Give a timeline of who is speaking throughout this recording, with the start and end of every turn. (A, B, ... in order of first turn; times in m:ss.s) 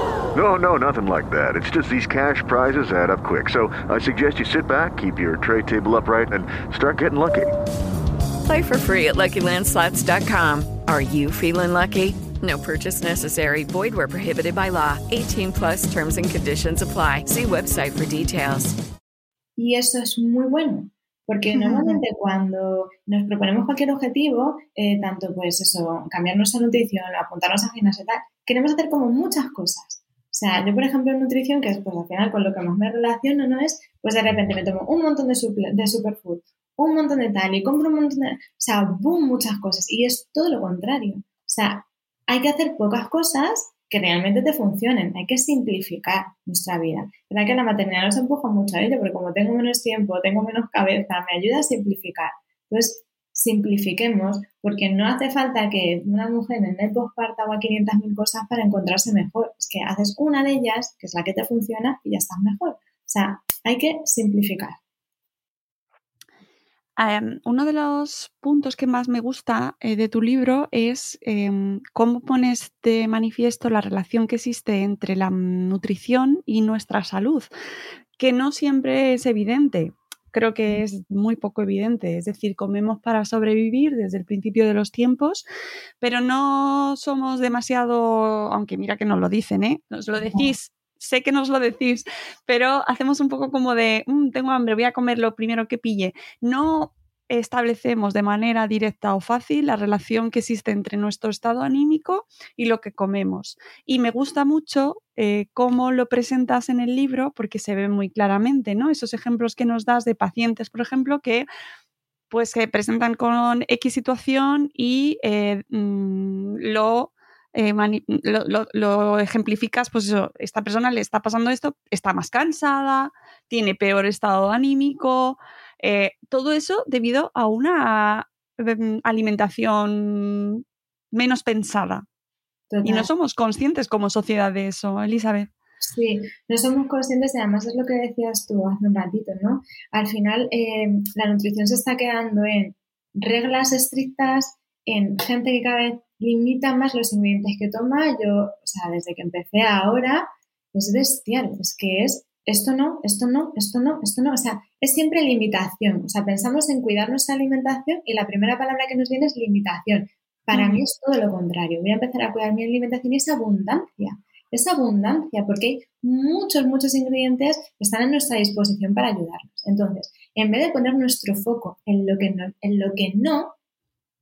0:00.3-0:07.5 A
0:08.5-0:18.8 B
0:19.6-1:04.8 C
0:21.5-0:22.0 D
1:07.0-1:17.5 D
1:18.2-1:25.4 D
1:26.0-1:51.5 D
1:30.2-1:30.5 C
1:52.3-2:12.1 D
2:12.7-2:13.1 C
2:12.8-2:15.5 D
2:15.8-2:53.6 C
2:40.5-2:40.8 D